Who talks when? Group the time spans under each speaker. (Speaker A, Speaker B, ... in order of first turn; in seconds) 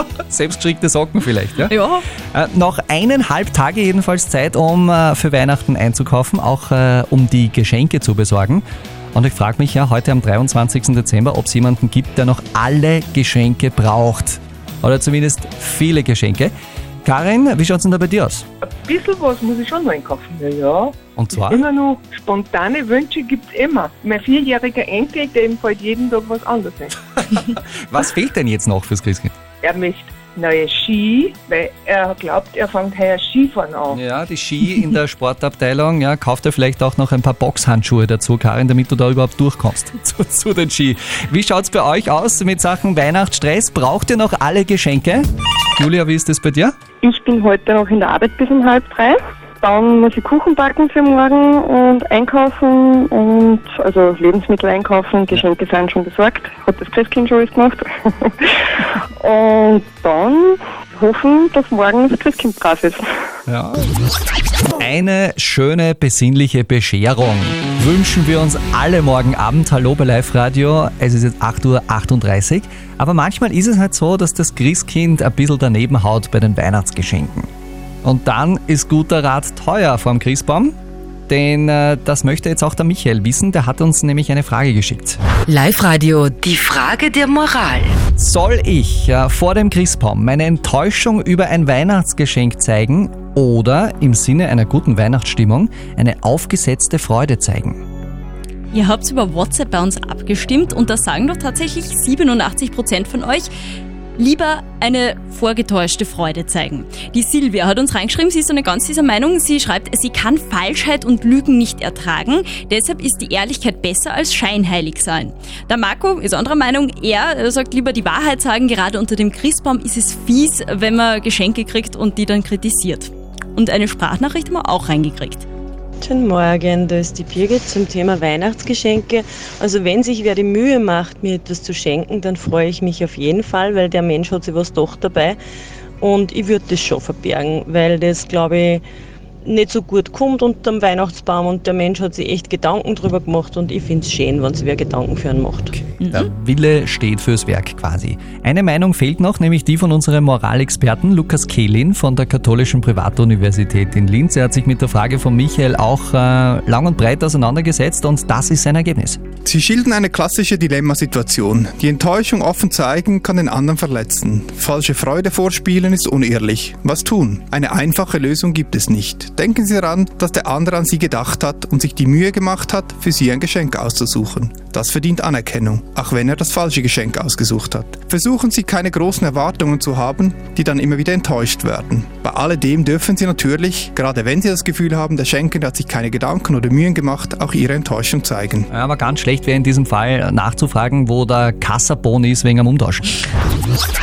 Speaker A: 0.2-1.8, 2.3-18.5, 21.1-21.6, 27.2-29.4, 33.9-46.8, 63.5-63.9, 64.8-77.5, 78.0-80.8, 81.3-85.2, 88.2-97.8, 146.1-159.2, 188.7-193.2
Speaker B: 1.6-2.0, 98.7-103.5, 104.2-125.5
Speaker C: 18.7-26.9, 29.6-34.0
Speaker D: 47.0-58.3, 59.2-63.0
Speaker E: 85.5-87.9
Speaker F: 126.0-135.4, 136.0-138.8, 139.4-145.8
Speaker G: 159.4-188.7